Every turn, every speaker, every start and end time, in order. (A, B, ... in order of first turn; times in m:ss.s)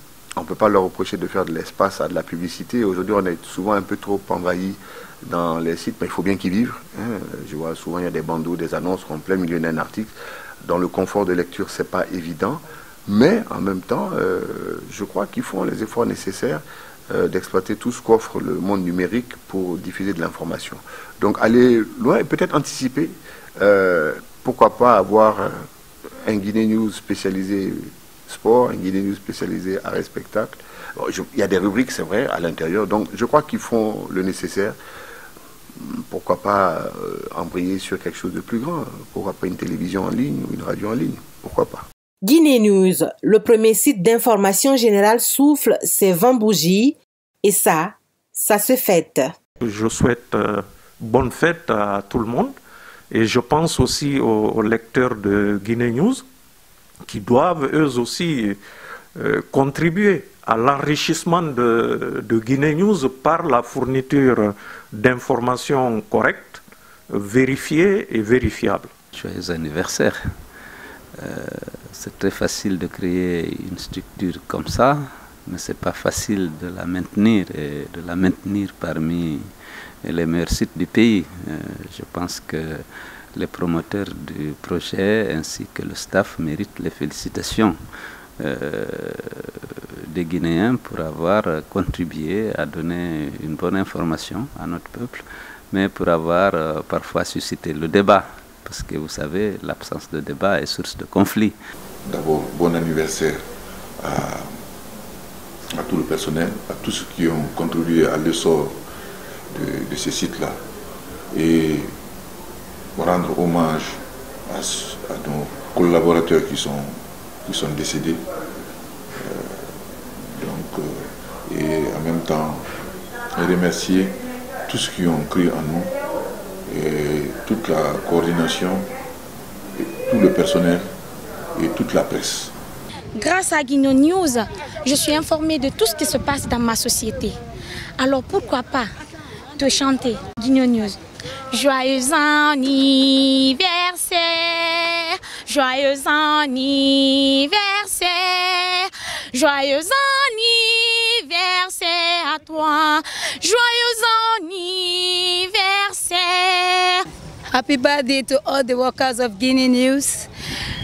0:00.4-0:25.6 A
0:26.2-0:34.8 A
0:35.8-0:41.8 A
0:42.2-0:49.3 B
0:49.6-0:52.5 C
0:53.1-0:56.2 C
0:57.1-0:58.6 C
0:59.2-1:08.9 C
1:09.1-1:10.3 D
1:11.1-1:19.5 D
1:20.0-1:27.8 D
1:28.4-1:41.6 D
1:42.0-1:43.5 E
1:44.0-1:44.6 E
1:45.7-1:48.8 E
1:49.5-1:50.6 E
1:51.3-1:52.0 E
1:53.0-1:58.2 E
1:59.1-2:02.8 E
2:03.3-2:05.9 E
2:06.7-2:08.9 E
2:09.7-2:10.9 E
2:11.5-2:12.5 E
2:13.2-2:17.4 F
2:18.0-2:18.9 F
2:19.6-2:21.0 F
2:21.5-2:37.0 F
2:37.5-2:40.3 G